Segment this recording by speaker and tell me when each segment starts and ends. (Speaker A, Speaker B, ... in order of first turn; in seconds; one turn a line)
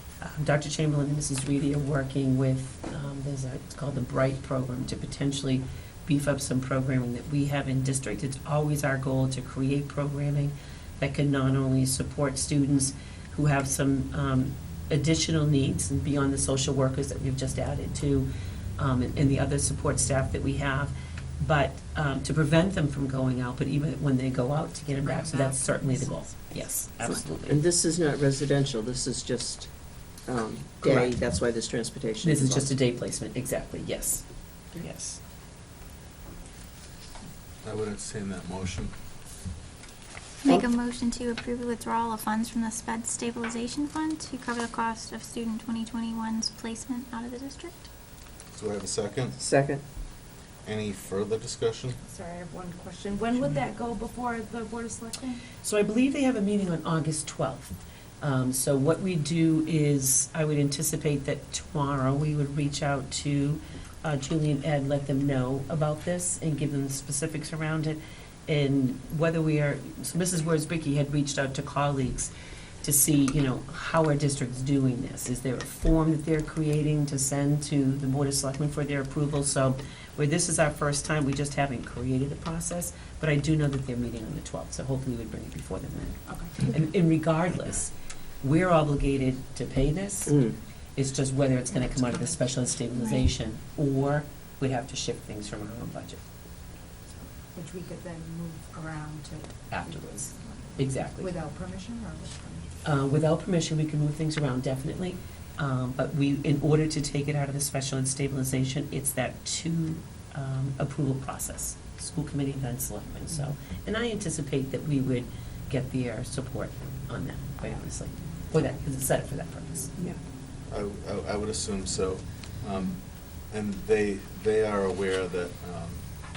Speaker A: 0.2-27.6
Speaker B: 25.1-26.1
Speaker C: 27.0-29.7
Speaker C: 30.3-32.7
Speaker A: 30.8-31.1
Speaker A: 32.2-34.2
Speaker A: 34.7-35.2
Speaker D: 37.6-38.9
Speaker E: 40.4-47.9
Speaker D: 48.5-49.4
Speaker C: 49.4-49.8
Speaker D: 50.6-52.0
Speaker B: 52.0-55.4
Speaker A: 55.6-72.3
Speaker A: 72.8-90.4
Speaker B: 86.3-86.6
Speaker A: 91.0-96.2
Speaker B: 91.8-92.5
Speaker B: 97.2-102.7
Speaker A: 99.7-101.3
Speaker A: 102.8-119.9
Speaker D: 120.7-123.0
Speaker D: 123.5-126.0